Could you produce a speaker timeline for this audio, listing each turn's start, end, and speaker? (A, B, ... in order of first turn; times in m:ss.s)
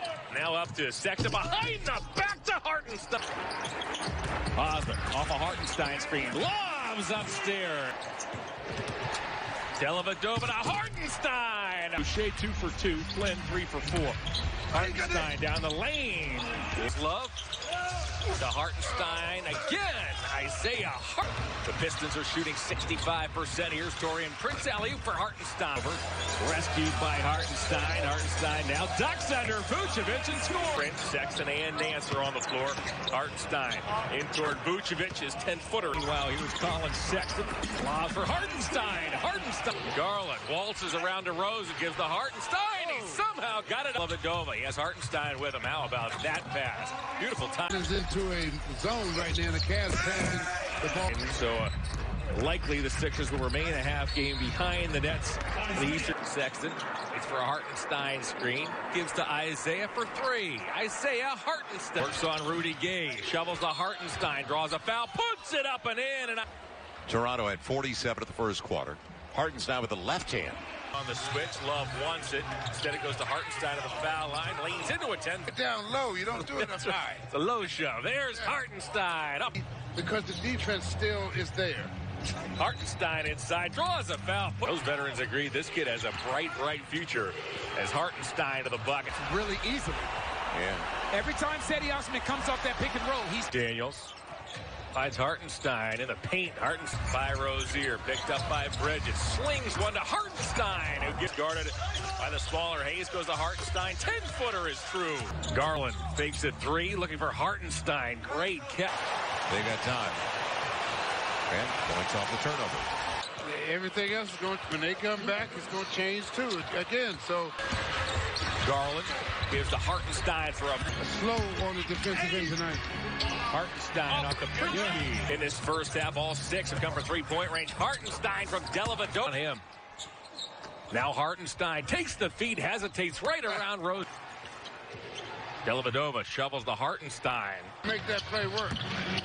0:00.3-0:03.2 A
0:04.5-0:08.0 A
0:09.7-0:14.2 A
0:14.7-0:47.7 A
0:14.7-0:15.3 B
0:47.7-0:51.1 B
0:51.1-0:51.7 A
0:52.3-1:06.4 A
1:07.1-1:10.6 C
1:10.9-1:15.5 A
1:15.5-1:17.2 B
1:16.4-1:19.6 A
1:19.8-1:21.9 B
1:22.5-1:29.2 A
1:29.2-1:30.1 D
1:30.5-1:30.9 C
1:31.1-1:33.5 D
1:33.5-1:34.1 A
1:34.9-1:49.0 A
1:49.5-1:50.2 C
1:51.5-1:52.9 C
1:53.4-1:57.5 B
1:58.6-2:00.8 A
2:01.0-2:02.8 B
2:03.4-2:09.6 A
2:04.7-2:05.0 B
2:10.9-2:14.1 A
2:15.6-2:17.7 A
2:17.8-2:18.8 B